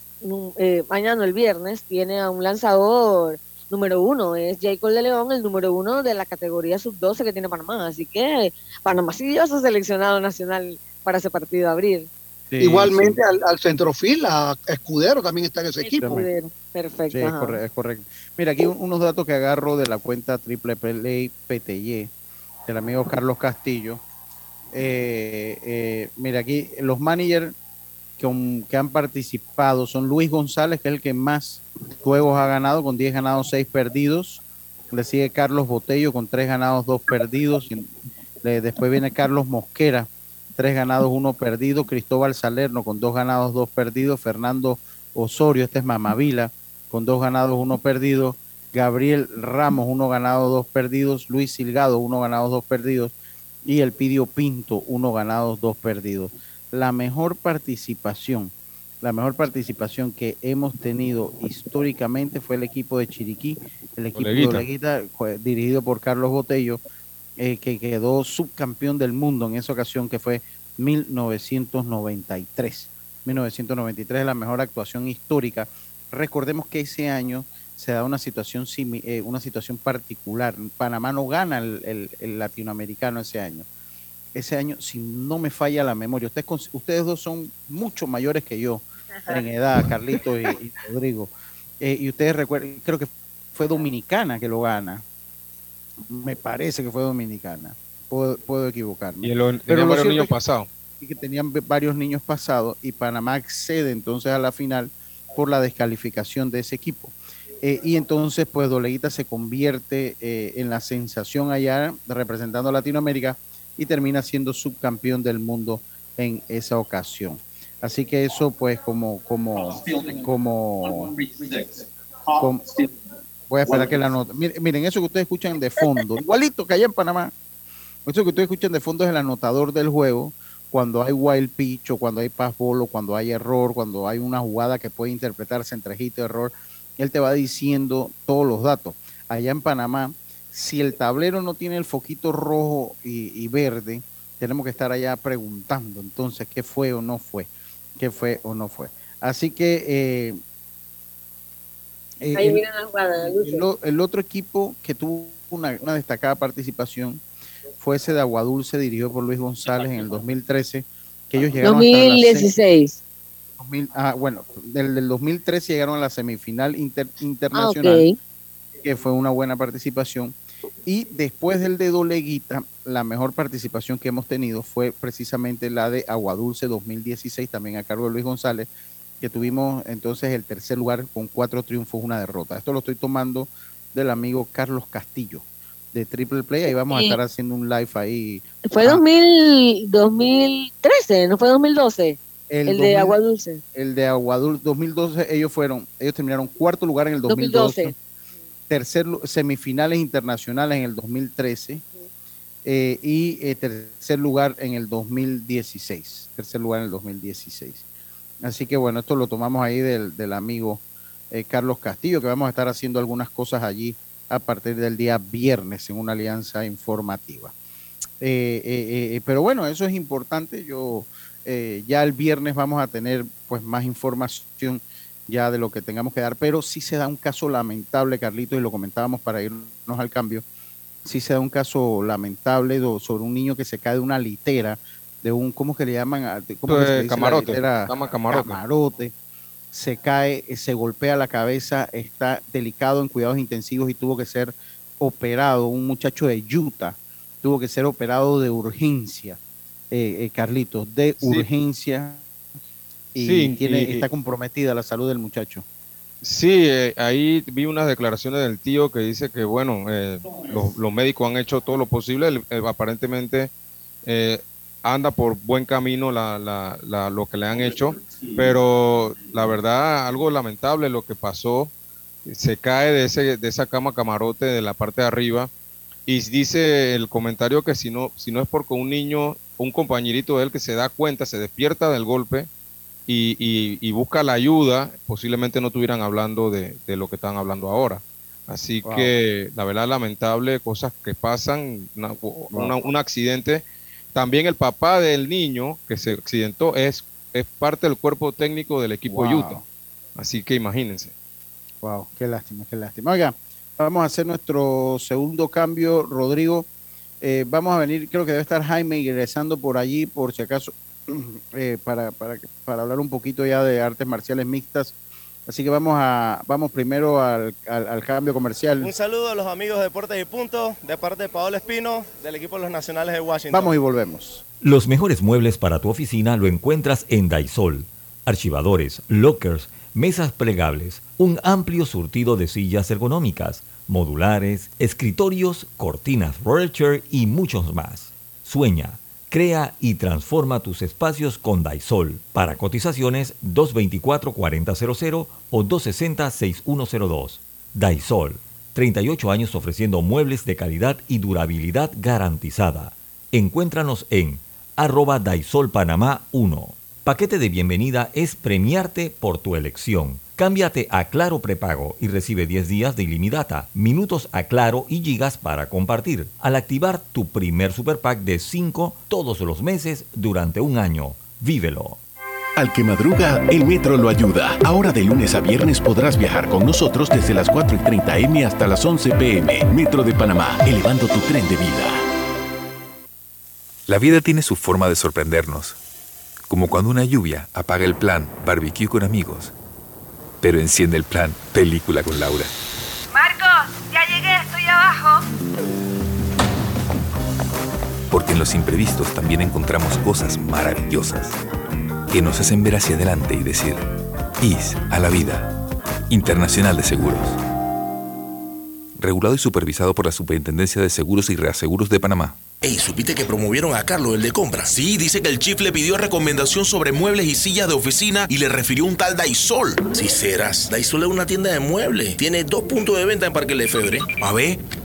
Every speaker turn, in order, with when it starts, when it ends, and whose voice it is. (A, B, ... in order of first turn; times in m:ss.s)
0:00.2-0:12.1 A
0:12.5-0:13.2 B
0:12.6-0:16.2 C
0:15.8-0:17.6 A
0:17.1-0:22.1 B
0:22.7-0:24.0 B
0:24.7-0:27.5 B
0:28.2-0:53.1 B
0:53.6-1:06.8 B
1:04.2-1:04.6 D
1:07.4-1:23.6 B
1:24.3-1:35.0 B
1:36.0-1:40.3 B
1:39.2-1:40.7 D
1:41.0-2:01.1 B
2:02.4-2:02.6 B
2:03.5-2:07.3 B
2:08.0-2:30.4 B
2:32.2-2:32.6 B
2:32.3-2:33.6 A
2:33.2-2:37.2 B
2:37.8-2:42.5 B
2:41.6-2:43.0 A
2:43.6-2:48.0 B
2:47.5-2:48.1 A
2:48.8-2:58.7 B
2:59.2-3:09.0 B
3:06.9-3:07.2 A
3:08.7-3:13.6 A
3:12.5-3:13.2 B
3:13.7-3:17.9 B
3:17.3-3:17.9 A
3:18.7-3:21.8 B
3:22.6-3:27.8 B
3:28.4-3:37.5 B
3:38.2-3:50.4 B
3:51.0-3:59.1 B
3:56.7-3:58.6 D
3:59.7-4:09.4 B
4:09.9-4:12.2 B
4:11.2-4:11.4 D
4:13.1-4:15.6 B
4:13.2-4:14.1 D
4:16.2-4:23.5 D
4:24.0-4:31.7 D
4:32.3-4:35.5 D
4:36.1-4:42.5 D
4:43.1-4:53.6 D
4:48.8-4:49.1 B
4:54.1-4:59.6 D
4:59.1-4:59.6 B
5:00.2-5:01.1 D
5:01.8-5:06.7 B
5:07.2-5:14.9 B
5:15.5-5:18.9 B
5:18.8-5:23.7 E
5:23.5-5:24.4 B
5:24.6-6:12.0 F
6:12.6-6:22.0 G
6:23.9-6:25.8 H
6:26.5-6:29.5 H
6:30.4-6:32.5 H
6:33.1-6:35.2 I
6:38.1-6:41.4 H
6:42.1-6:43.8 H
6:44.4-6:45.5 H
6:46.1-6:47.4 H
6:49.0-6:52.4 H
6:52.6-6:55.2 J
6:56.0-6:59.2 J
6:59.8-7:04.1 J